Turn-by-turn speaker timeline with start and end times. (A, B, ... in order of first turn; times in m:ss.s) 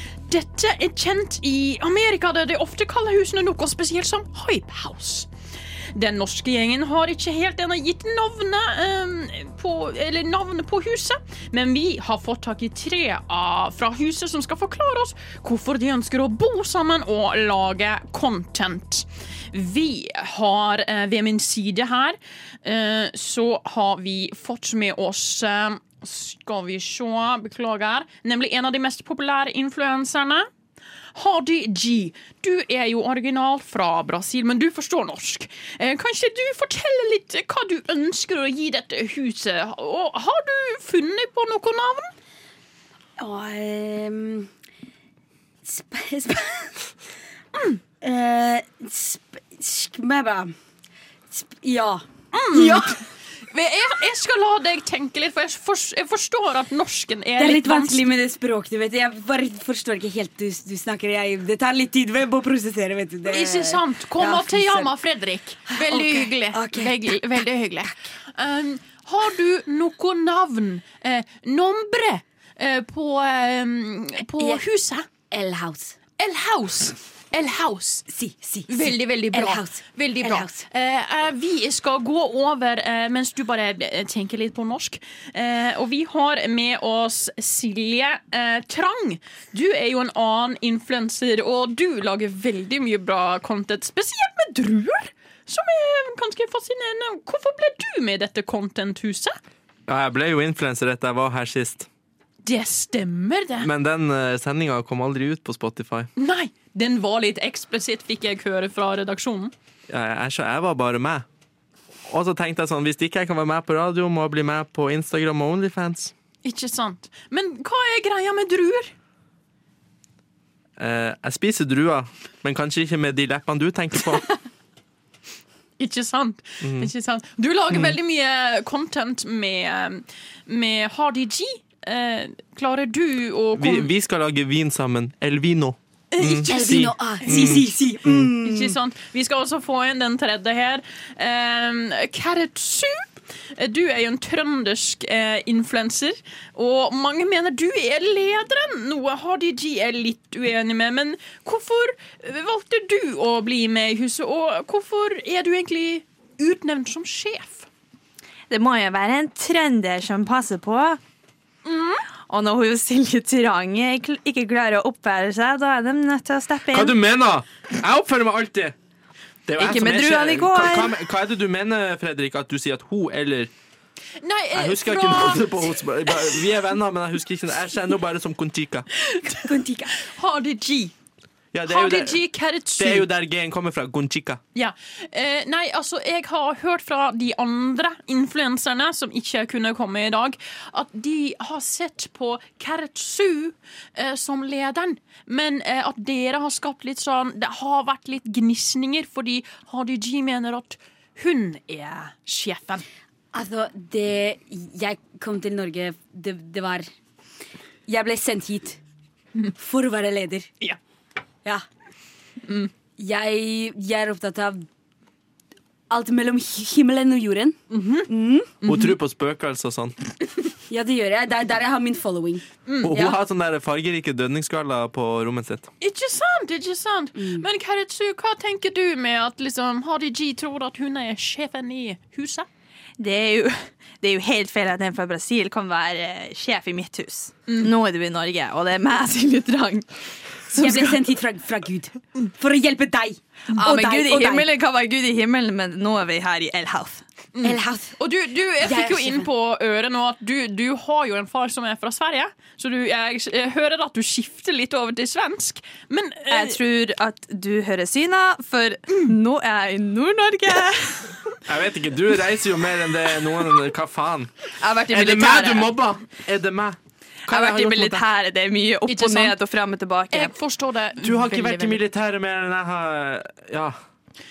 0:00.3-0:05.3 A
0:05.9-0:30.5 A
0:31.1-0:42.1 A
0:43.2-0:44.5 B
0:45.6-0:46.8 B
0:48.0-0:50.5 B
0:51.3-0:53.0 B
0:52.3-0:58.0 A
0:57.4-1:04.9 B
1:03.2-1:15.1 A
1:05.7-1:07.1 B
1:15.3-1:16.0 B
1:16.2-1:18.0 A
1:18.1-1:20.7 B
1:18.7-1:39.4 A
1:39.9-1:41.9 C
1:42.4-1:43.7 A
1:43.6-1:46.1 C
1:46.2-1:49.5 A
1:49.9-1:51.2 C
1:52.1-1:56.1 C
1:56.4-1:58.9 A
2:00.8-2:04.3 C
2:05.8-2:13.9 A
2:06.6-2:06.9 C
2:13.6-2:18.3 C
2:16.1-2:17.6 A
2:16.5-2:18.8 B
2:18.4-2:37.7 A
2:38.5-2:41.0 D
2:41.6-2:42.0 A
2:42.3-2:46.9 D
2:46.7-2:48.7 C
2:49.4-2:53.5 C
2:49.6-2:50.9 D
2:54.2-2:56.4 A
2:54.5-2:58.9 C
2:59.1-3:00.9 A
2:59.3-3:00.0 B
3:01.5-3:02.2 C
3:01.6-3:03.1 A
3:02.8-3:04.4 C
3:04.5-3:22.8 A
3:23.3-3:26.9 B
3:27.9-3:28.8 B
3:29.6-3:30.5 B
3:32.4-3:32.7 A
3:33.0-3:34.6 B
3:35.9-3:38.5 B
3:37.7-3:38.1 A
3:38.6-3:39.0 A
3:38.6-3:40.0 C
3:40.7-3:43.2 B
3:42.7-3:42.9 A
3:42.8-3:45.7 C
3:45.8-3:52.5 A
3:47.2-3:47.4 B
3:53.0-3:59.9 D
4:00.4-4:01.0 D
4:00.6-4:04.5 B
4:03.5-4:07.0 D
4:07.3-4:16.6 A
4:07.4-4:08.0 B
4:08.6-4:09.3 B
4:16.3-4:21.2 D
4:21.4-4:24.3 C
4:24.6-4:25.8 D
4:24.9-4:28.0 C
4:27.3-4:30.3 D
4:28.9-4:29.4 A
4:30.1-4:31.8 A
4:31.0-4:33.8 C